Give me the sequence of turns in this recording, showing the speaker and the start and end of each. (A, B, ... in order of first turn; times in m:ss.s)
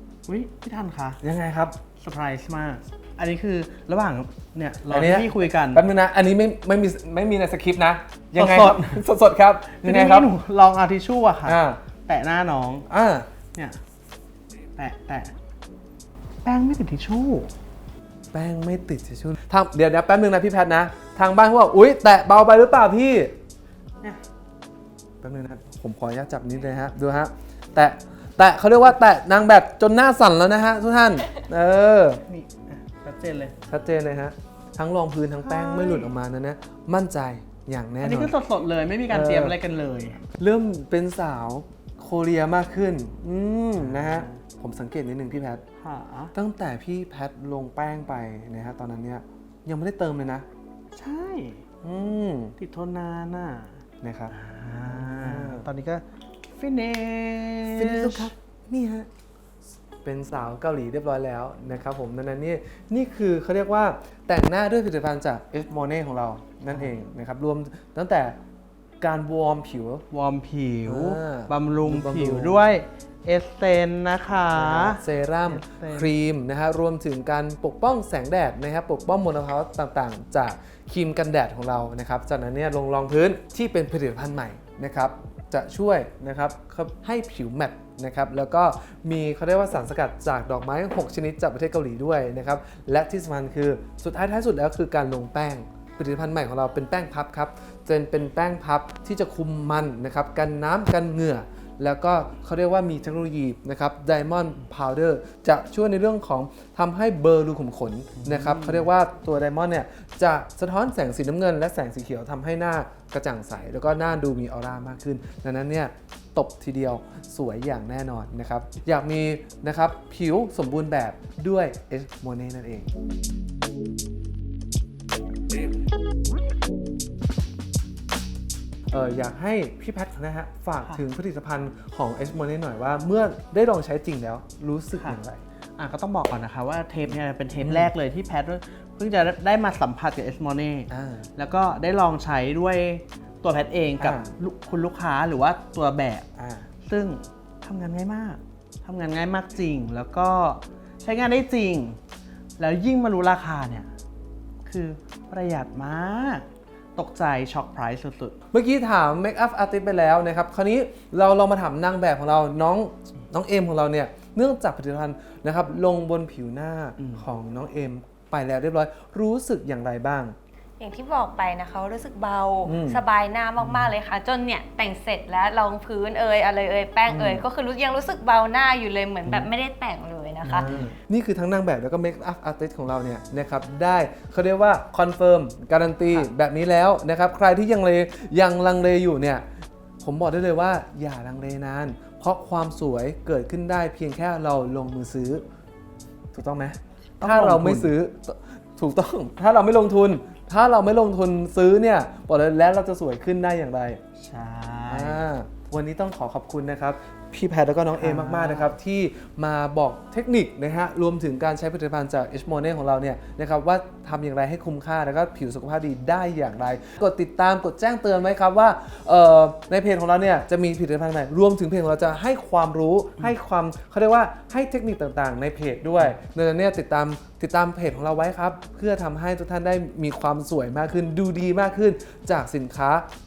0:00.3-0:01.2 A
0:01.2-0:01.8 B
0:02.0-0:05.9 A
0:04.9-0:10.3 B
0:08.4-0:09.0 A
0:09.8-0:12.9 A
0:11.4-0:11.8 B
0:12.9-0:13.3 B
0:13.5-0:13.8 A
0:14.8-0:15.3 A
0:16.4-0:17.5 A
0:18.3-0:23.4 B
0:25.2-0:32.2 B
0:32.3-0:33.6 A
0:33.7-0:38.3 B
0:35.4-0:36.1 A
0:38.0-0:40.2 A
0:39.1-0:39.6 B
0:40.4-0:45.6 B
0:43.8-0:44.4 A
0:45.8-0:46.3 A
0:46.4-0:50.5 B
0:50.9-0:51.6 A
0:51.8-0:52.6 B
0:52.6-0:53.8 A
0:54.0-0:54.3 B
0:54.3-0:58.3 A
0:54.9-0:55.7 B
0:57.8-0:59.1 B
1:00.0-1:08.4 B
1:06.6-1:07.0 A
1:09.0-1:10.0 B
1:10.1-1:16.1 A
1:10.9-1:12.6 B
1:14.5-2:02.9 B
1:48.2-1:48.9 A
2:08.9-2:15.4 B
2:14.9-2:15.2 A
2:15.8-2:26.3 A
2:17.6-2:17.9 B
2:20.9-2:21.3 B
2:24.0-2:24.3 B
2:26.4-2:26.7 B
2:26.8-2:32.0 A
2:32.6-2:33.9 A
2:34.6-2:38.4 A
2:38.5-2:50.4 B
2:47.0-2:47.2 A
2:50.8-3:00.7 C
2:52.6-2:53.0 B
2:57.1-2:57.5 B
2:59.2-2:59.5 B
3:00.4-3:09.4 B
3:00.6-3:01.0 A
3:10.0-3:15.4 B
3:16.3-3:24.0 B
3:17.2-3:17.9 A
3:24.2-3:25.2 A
3:24.9-3:53.0 B
3:28.0-3:28.8 A